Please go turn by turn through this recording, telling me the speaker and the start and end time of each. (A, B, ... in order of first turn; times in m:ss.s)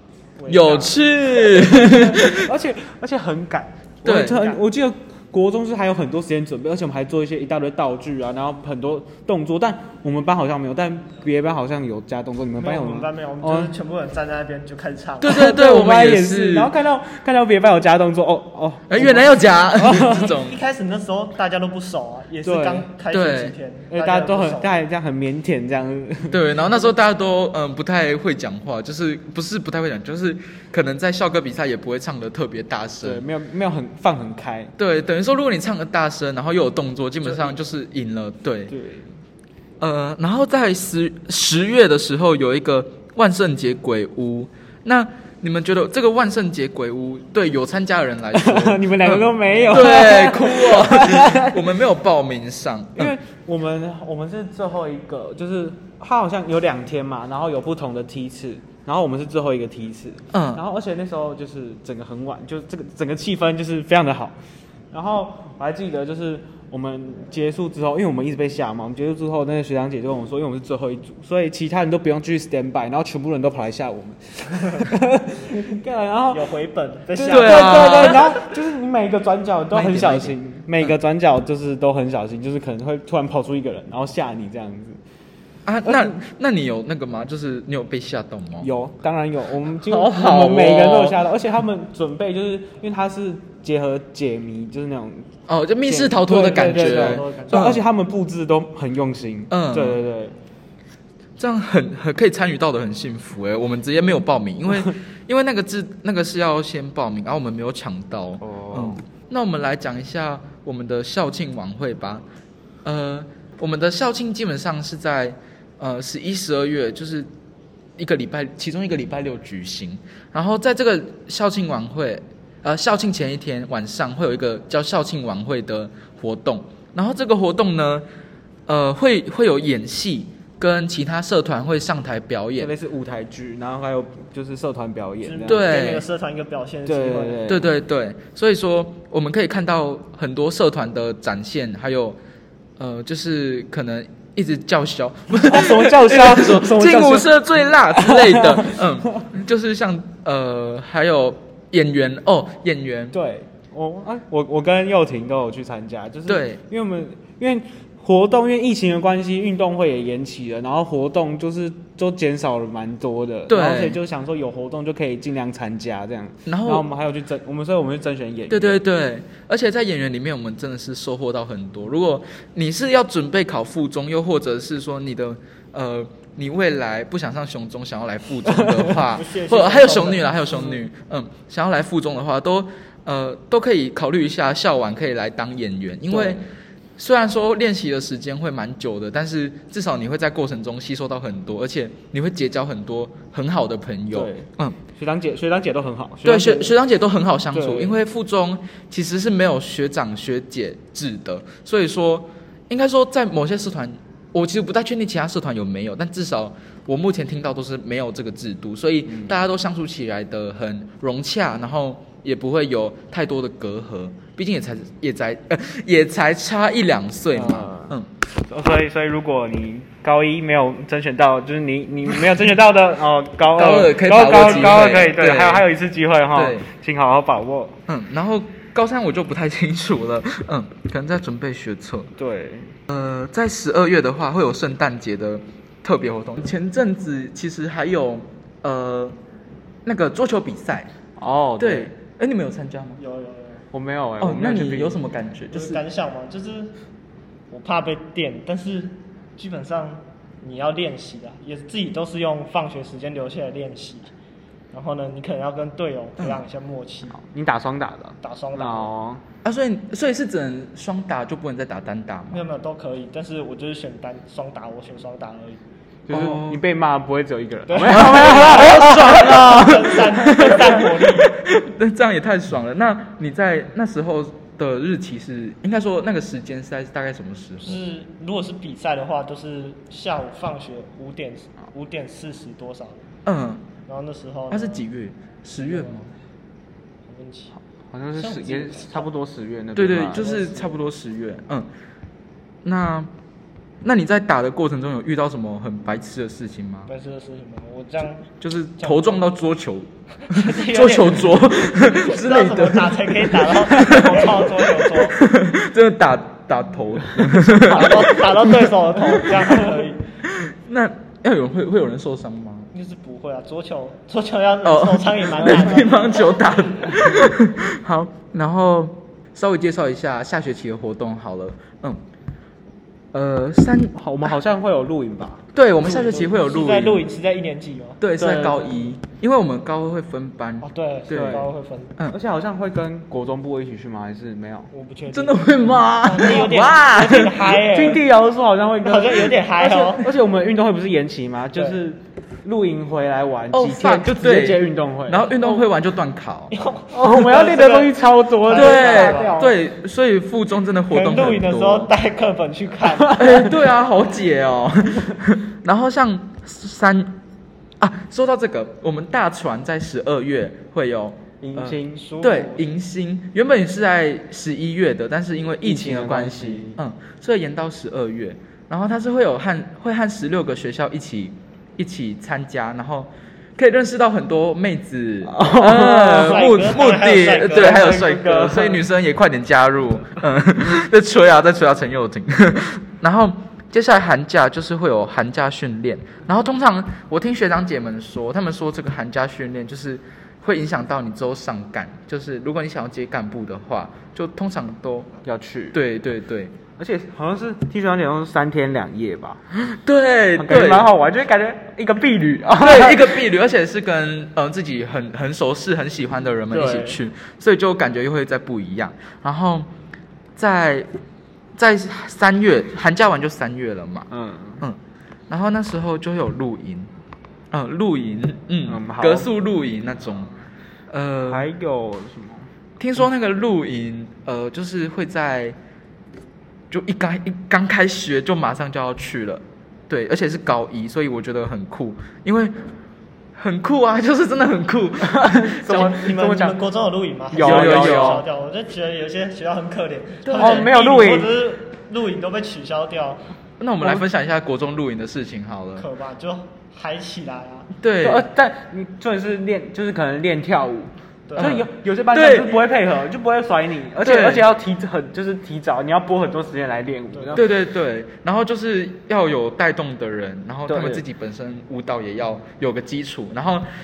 0:00.4-0:01.0 A
0:00.5-0:02.4 B
0:01.4-0:13.7 C
0:04.0-0:04.4 B
0:04.3-0:04.6 A
0:12.6-0:15.4 A
0:15.2-0:16.7 B
0:15.2-0:20.3 C
0:18.9-0:20.6 B
0:19.9-0:24.8 A
0:22.4-0:22.9 C
0:23.1-0:23.6 B
0:23.9-0:26.6 C
0:26.3-0:33.2 B
0:33.0-0:34.7 C
0:34.8-0:38.7 B
0:38.7-0:39.1 C
0:39.8-0:53.1 B
0:48.3-0:51.5 C
0:49.6-0:49.9 A
0:53.0-1:04.4 C
1:00.3-1:00.6 B
1:04.9-1:16.5 C
1:16.3-1:18.2 A
1:17.1-1:25.0 C
1:17.3-1:18.3 B
1:19.7-1:20.4 B
1:25.6-1:28.7 B
1:25.8-1:26.2 C
1:28.6-1:35.2 C
1:29.8-1:31.2 B
1:35.5-1:37.8 B
1:35.8-1:40.4 C
1:36.3-1:37.8 A
1:39.5-1:40.0 B
1:41.4-1:52.2 B
1:48.4-1:49.0 C
1:52.8-1:57.3 B
1:58.0-2:08.0 B
2:08.7-2:12.7 B
2:12.6-2:15.6 C
2:15.2-2:17.5 A
2:15.4-2:16.0 B
2:16.8-2:17.7 C
2:17.5-2:22.2 B
2:22.8-2:33.2 B
2:25.3-2:27.4 C
2:27.9-2:28.7 C
2:33.1-2:48.8 C
2:36.3-2:36.6 B
2:43.5-2:44.0 B
2:46.4-2:46.9 B
2:48.5-3:06.4 B
2:58.5-2:59.0 C
2:59.0-3:00.6 A
3:06.1-3:06.4 C
3:07.0-3:14.8 B
3:14.1-3:16.8 C
3:16.2-3:38.1 B
3:17.5-3:18.0 C
3:29.1-3:29.3 C
3:37.3-3:38.0 C
3:38.5-3:47.8 C
3:43.5-3:45.7 B
3:46.3-3:46.7 B
3:47.9-3:52.1 B
3:52.2-3:52.8 C
3:52.9-3:59.2 B
3:59.8-4:00.9 B
4:01.2-4:01.9 C
4:01.6-4:03.0 B
4:03.0-4:03.6 A
4:03.7-4:05.0 C
4:04.2-4:05.8 B
4:05.5-4:06.7 A
4:07.5-4:14.1 A
4:14.7-4:17.2 A
4:17.2-4:19.2 C
4:18.2-4:18.9 A
4:19.4-4:22.4 B
4:22.3-4:25.6 A
4:26.1-4:29.3 C
4:26.1-4:26.6 B
4:27.7-4:31.3 A
4:27.9-4:37.8 B
4:37.6-4:43.0 A
4:43.2-4:43.7 B
4:43.8-4:44.8 A
4:44.5-4:46.1 B
4:45.6-4:45.9 A
4:47.1-4:47.5 A
4:47.5-4:50.2 C
4:48.1-4:49.1 A
4:49.8-4:51.7 B
4:50.1-4:50.8 A
4:52.6-4:53.1 B
4:53.8-4:56.9 B
4:56.9-4:59.2 A
4:58.4-5:09.7 B
5:00.3-5:05.2 A
5:07.5-5:10.0 A
5:10.2-5:12.7 B
5:12.7-5:16.2 A
5:14.6-5:22.0 B
5:23.1-5:24.3 B
5:23.9-5:26.3 C
5:25.5-5:27.0 B
5:25.8-5:28.0 A
5:28.0-5:31.4 B
5:28.2-5:28.7 C
5:30.6-5:31.9 A
5:31.1-5:31.5 C
5:32.1-5:34.7 C
5:34.7-5:38.0 A
5:35.1-5:37.5 B
5:37.7-5:45.6 C
5:38.8-5:40.1 A
5:43.5-5:46.5 B
5:46.5-5:49.4 A
5:46.9-5:49.6 C
5:48.5-5:51.9 B
5:50.9-5:53.4 A
5:53.1-5:57.2 B
5:57.8-6:35.1 B
6:01.4-6:02.0 C
6:01.9-6:02.7 A
6:05.6-6:06.8 C
6:15.3-6:16.5 C
6:15.6-6:18.2 A
6:17.4-6:18.8 C
6:35.2-6:35.8 C
6:35.7-6:36.5 B
6:36.8-6:39.4 C
6:39.7-6:40.9 B
6:40.3-6:43.2 C
6:42.6-6:49.7 B
6:46.5-6:46.9 C
6:46.6-6:46.8 A
6:50.4-6:50.9 B
6:51.6-6:54.1 B
6:54.1-6:54.6 C
6:55.3-6:56.9 B
6:57.5-7:00.3 B
6:58.6-6:59.3 C
7:00.9-7:01.5 B
7:01.3-7:02.5 C
7:02.8-7:05.6 B
7:06.7-7:12.5 B
7:13.4-7:15.6 B
7:15.1-7:16.6 C
7:15.6-7:23.2 A
7:17.3-7:18.2 C
7:17.4-7:18.2 B
7:20.2-7:20.7 B
7:20.3-7:21.4 C
7:23.6-7:25.8 B
7:25.8-7:27.7 A
7:27.8-7:28.3 B
7:28.0-7:37.5 C
7:31.3-7:31.6 A
7:31.4-7:32.6 B
7:34.0-7:34.4 B
7:37.1-7:37.4 A
7:37.3-7:43.7 B
7:40.7-7:41.0 C